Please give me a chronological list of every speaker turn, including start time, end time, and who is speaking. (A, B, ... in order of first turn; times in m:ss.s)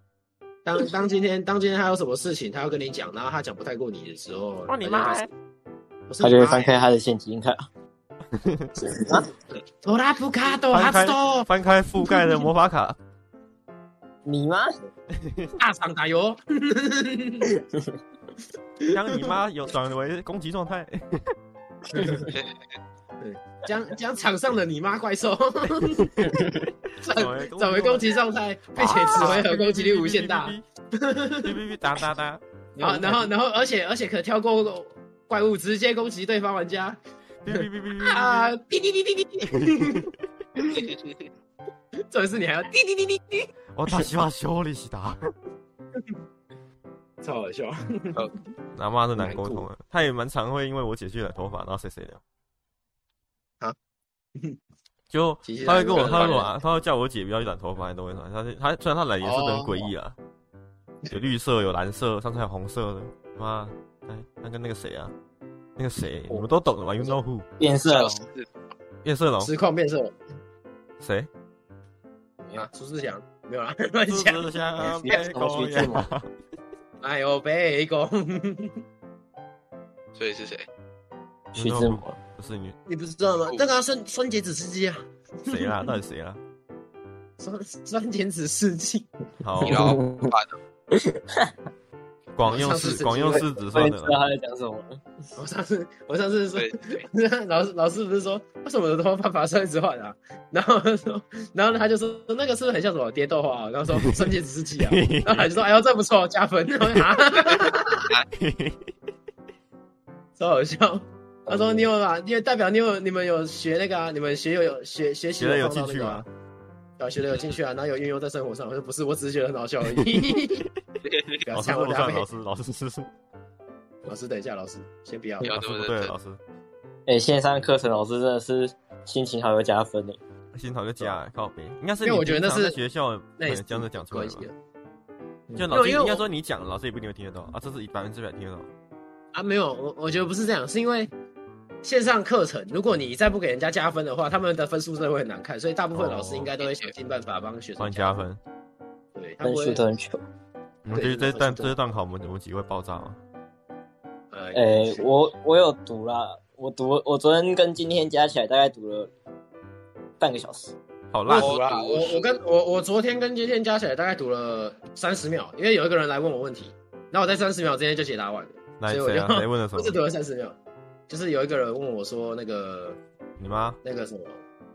0:00.6-0:05.2 A
0:04.7-0:05.3 B
0:06.1-0:06.8 A
0:06.2-0:07.6 C
0:08.3-0:08.7 B
0:08.8-0:09.3 C
0:09.8-0:11.5 A
0:10.7-0:13.0 B
0:14.2-0:14.7 C
0:15.1-0:15.6 B
0:15.6-0:17.5 A
0:18.8-0:19.3 A
0:18.9-0:21.3 B
0:21.9-0:22.3 A
0:23.2-0:26.3 A
0:26.3-0:26.6 C
0:27.0-0:31.5 A
0:27.0-0:28.2 B
0:28.8-0:30.6 B
0:31.4-0:32.4 B
0:32.8-0:33.2 C
0:32.8-0:37.0 A
0:37.4-0:38.5 B
0:37.5-0:40.9 A
0:39.5-0:40.0 B
0:40.7-0:41.2 D
0:42.1-0:43.5 A
0:43.8-0:45.2 B
0:47.2-0:48.3 A
0:48.8-0:52.2 B
0:49.2-0:49.6 A
0:55.1-1:00.2 B
0:55.4-0:56.5 A
0:59.2-0:59.9 A
1:01.1-1:05.1 B
1:05.8-1:07.5 B
1:06.3-1:07.2 A
1:07.6-1:08.2 C
1:07.9-1:08.5 D
1:09.0-1:09.5 B
1:09.4-1:10.1 A
1:11.0-1:11.3 B
1:12.5-1:14.4 A
1:14.1-1:16.3 B
1:14.8-1:16.1 C
1:17.0-1:18.8 A
1:20.1-1:20.6 D
1:21.5-1:22.8 B
1:21.6-1:22.2 C
1:22.9-1:25.8 A
1:25.5-1:26.4 B
1:27.4-1:29.1 A
1:29.4-1:29.9 B
1:29.6-1:30.6 D
1:29.6-1:30.3 C
1:30.9-1:31.5 C
1:32.3-1:34.2 B
1:32.4-1:33.5 A
1:33.3-1:35.0 C
1:35.4-1:48.1 A
1:36.5-1:37.0 D
1:44.0-1:45.6 B
1:48.3-1:48.8 B
1:50.4-1:56.2 A
1:51.4-1:51.9 C
1:55.4-1:56.2 B
1:57.0-2:00.6 A
2:00.0-2:00.4 B
2:01.0-2:01.4 D
2:01.4-2:02.2 A
2:01.5-2:03.1 B
2:04.0-2:05.5 A
2:05.4-2:06.1 D
2:05.4-2:06.4 B
2:07.1-2:10.2 C
2:10.5-2:14.4 B
2:12.0-2:12.8 A
2:13.4-2:14.5 A
2:15.6-2:18.7 B
2:15.7-2:16.2 A
2:19.3-2:21.1 A
2:21.8-2:28.2 A
2:25.9-2:26.5 B
2:26.6-2:26.9 D
2:27.8-2:28.4 B
2:29.1-2:29.8 A
2:29.4-2:30.2 C
2:30.8-2:33.2 B
2:30.9-2:31.7 A
2:34.3-2:35.0 A
2:34.5-2:39.1 C
2:40.2-2:40.8 C
2:41.1-2:41.5 B
2:41.3-2:50.6 A
2:41.3-2:42.4 D
2:48.8-2:50.0 B
2:51.1-2:53.0 A
2:53.4-2:53.8 B
2:53.8-2:54.4 A